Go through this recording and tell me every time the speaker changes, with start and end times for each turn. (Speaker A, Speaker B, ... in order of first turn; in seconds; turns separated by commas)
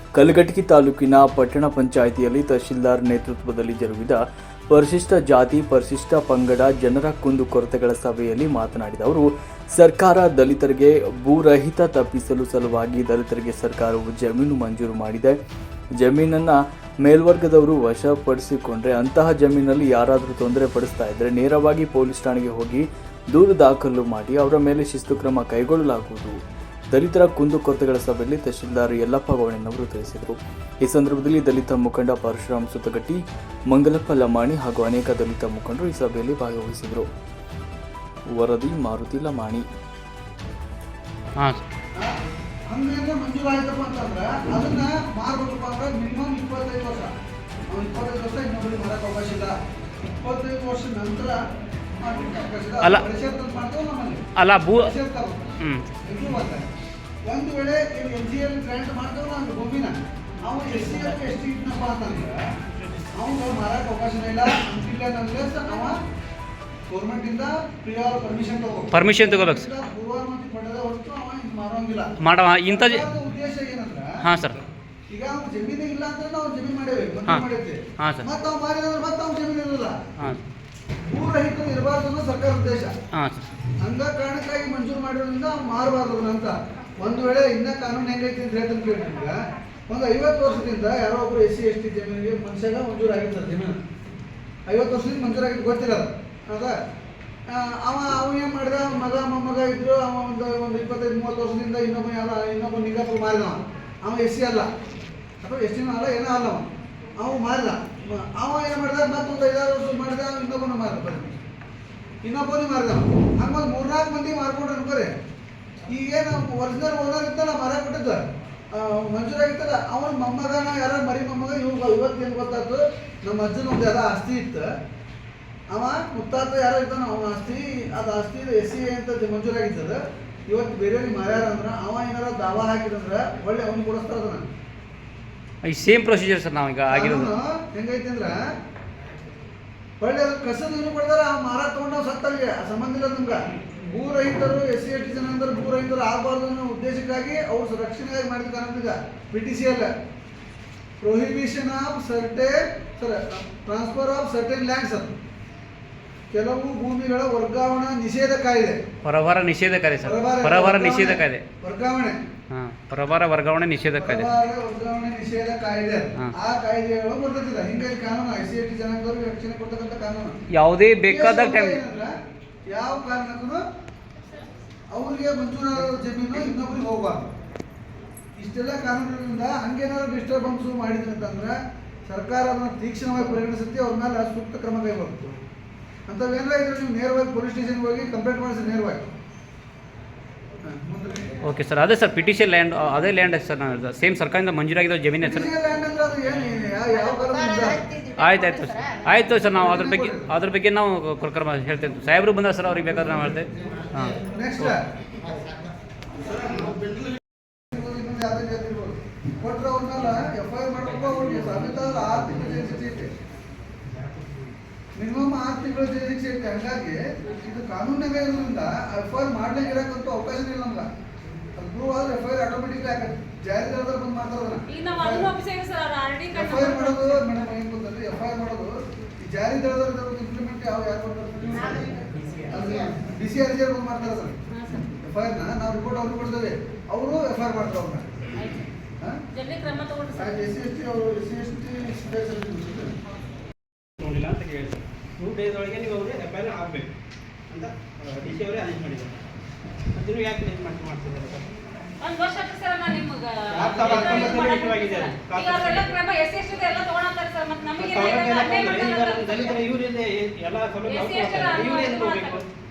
Speaker A: 0.1-4.2, Speaker A: 4.7-15.4, Speaker A: 16.0-26.4, Speaker A: 26.9-37.1, Speaker A: 38.3-39.6, Speaker B: 42.7-47.1, Speaker B: 47.7-49.5, Speaker B: 50.0-51.4, Speaker B: 52.0-56.7, Speaker C: 54.4-54.9, Speaker C: 55.6-55.9, Speaker B: 57.2-62.4, Speaker B: 63.1-65.9, Speaker B: 66.9-72.1, Speaker C: 68.9-69.7, Speaker C: 72.2-73.0, Speaker B: 72.7-74.1, Speaker C: 74.2-74.6, Speaker B: 75.1-80.0, Speaker C: 78.0-78.2, Speaker B: 81.1-82.9, Speaker C: 83.1-83.5, Speaker B: 83.8-89.4, Speaker B: 89.9-93.8, Speaker B: 94.7-96.7, Speaker B: 97.5-104.7, Speaker B: 105.4-106.7, Speaker B: 107.2-111.4, Speaker B: 112.2-115.1, Speaker B: 115.9-124.7, Speaker B: 125.7-134.5, Speaker C: 135.6-137.3, Speaker B: 136.9-138.4, Speaker B: 140.0-149.9, Speaker B: 151.0-155.1, Speaker B: 156.3-158.8, Speaker C: 159.0-161.4, Speaker B: 160.0-162.2, Speaker C: 162.5-164.3, Speaker B: 164.0-170.4, Speaker C: 170.5-171.8, Speaker B: 171.1-172.1, Speaker B: 172.7-173.6, Speaker B: 174.9-177.3, Speaker B: 178.4-181.5, Speaker B: 182.1-185.3, Speaker B: 186.1-189.1, Speaker B: 190.6-191.4, Speaker C: 191.4-195.5, Speaker B: 195.2-197.8, Speaker C: 197.9-204.7, Speaker B: 199.4-200.3, Speaker B: 204.2-204.8, Speaker D: 206.2-207.1, Speaker B: 207.7-213.1, Speaker B: 214.9-220.9, Speaker B: 221.6-225.3, Speaker E: 224.7-227.3, Speaker B: 226.3-234.3, Speaker E: 234.5-234.9, Speaker B: 234.9-238.1, Speaker E: 238.3-238.7, Speaker E: 239.3-240.4, Speaker B: 240.1-242.9, Speaker D: 244.0-246.9, Speaker D: 247.5-249.2, Speaker D: 249.9-251.4, Speaker E: 252.0-259.6, Speaker D: 253.5-255.9, Speaker B: 253.7-254.5, Speaker D: 257.8-262.4, Speaker E: 260.9-262.4